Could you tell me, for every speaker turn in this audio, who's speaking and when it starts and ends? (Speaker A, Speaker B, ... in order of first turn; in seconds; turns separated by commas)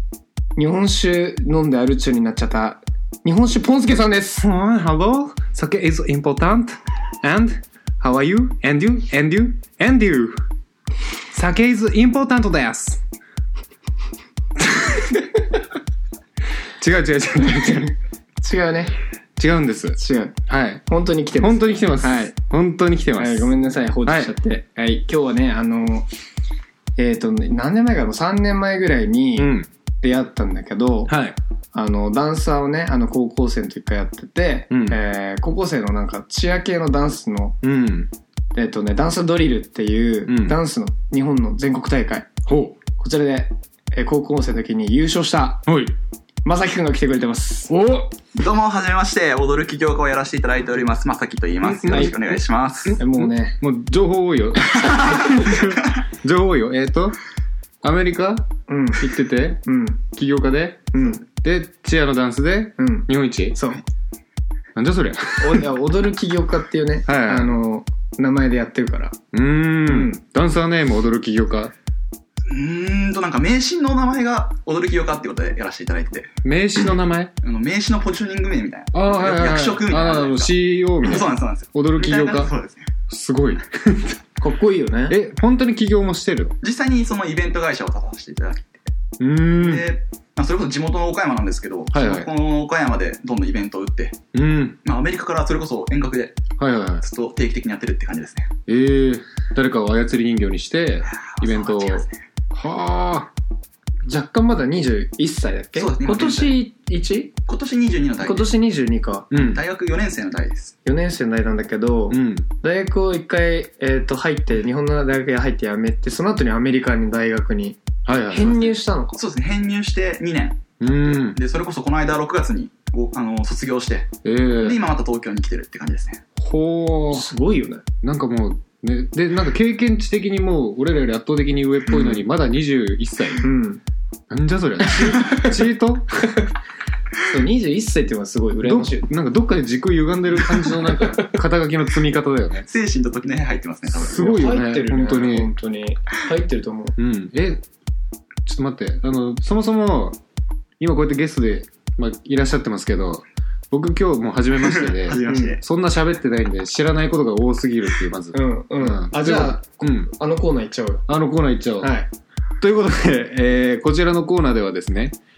Speaker A: 0.6-4.5, Speaker B: 4.4-10.4, Speaker B: 11.3-13.0, Speaker B: 14.7-15.0, Speaker B: 16.8-17.9, Speaker A: 18.4-18.9, Speaker B: 19.4-20.8, Speaker A: 20.0-22.3, Speaker B: 21.4-24.3, Speaker A: 23.1-26.1, Speaker A: 27.0-31.1, Speaker B: 29.4-29.7, Speaker B: 31.1-31.4, Speaker A: 31.7-37.6, Speaker B: 34.7-35.0, Speaker B: 37.6-38.1, Speaker A: 38.5-42.3, Speaker B: 40.2-40.6, Speaker B: 42.5-42.8, Speaker A: 43.0-45.7, Speaker B: 45.6-45.9, Speaker A: 46.4-47.7, Speaker B: 47.7-48.1, Speaker C: 48.3-53.0, Speaker B: 51.6-52.2, Speaker A: 51.8-52.2, Speaker B: 52.9-57.2, Speaker A: 52.9-53.6, Speaker B: 57.8-63.6, Speaker A: 58.7-60.0, Speaker A: 60.9-61.2, Speaker A: 62.8-63.8, Speaker B: 64.7-65.7, Speaker A: 65.4-69.2, Speaker B: 67.0-67.5, Speaker B: 69.3-71.7, Speaker A: 69.8-70.2, Speaker C: 72.5-76.3, Speaker B: 76.4-77.3, Speaker C: 77.4-82.9, Speaker B: 78.9-82.5, Speaker B: 83.1-84.2, Speaker A: 84.4-85.2, Speaker B: 85.1-86.5, Speaker C: 86.6-88.8, Speaker B: 89.2-89.9, Speaker C: 89.5-94.2, Speaker B: 91.9-92.3, Speaker B: 94.3-94.8, Speaker C: 94.8-96.4, Speaker B: 96.6-97.0, Speaker C: 97.0-98.5, Speaker B: 98.7-103.3, Speaker C: 101.1-102.1, Speaker A: 104.0-107.3, Speaker C: 105.8-106.6, Speaker C: 107.5-108.5, Speaker A: 108.2-109.3, Speaker B: 109.3-109.6, Speaker C: 109.3-110.7, Speaker A: 110.8-119.2, Speaker B: 112.1-112.5, Speaker B: 118.0-118.7, Speaker C: 119.2-126.2, Speaker B: 120.8-121.4, Speaker B: 124.2-124.8, Speaker B: 126.4-127.3, Speaker A: 127.1-127.8, Speaker B: 128.0-133.4, Speaker A: 131.9-132.2, Speaker A: 133.4-133.8, Speaker B: 134.3-136.3, Speaker A: 135.0-135.5, Speaker A: 137.3-139.1, Speaker B: 138.6-142.7, Speaker A: 141.0-141.3, Speaker C: 142.7-144.3, Speaker B: 143.9-145.5, Speaker A: 144.1-146.9, Speaker B: 147.0-147.6, Speaker B: 148.4-150.2, Speaker B: 150.8-160.1, Speaker C: 154.6-155.6, Speaker A: 155.2-155.6, Speaker A: 158.3-161.0, Speaker B: 161.1-161.9, Speaker A: 161.8-162.1, Speaker B: 162.6-165.2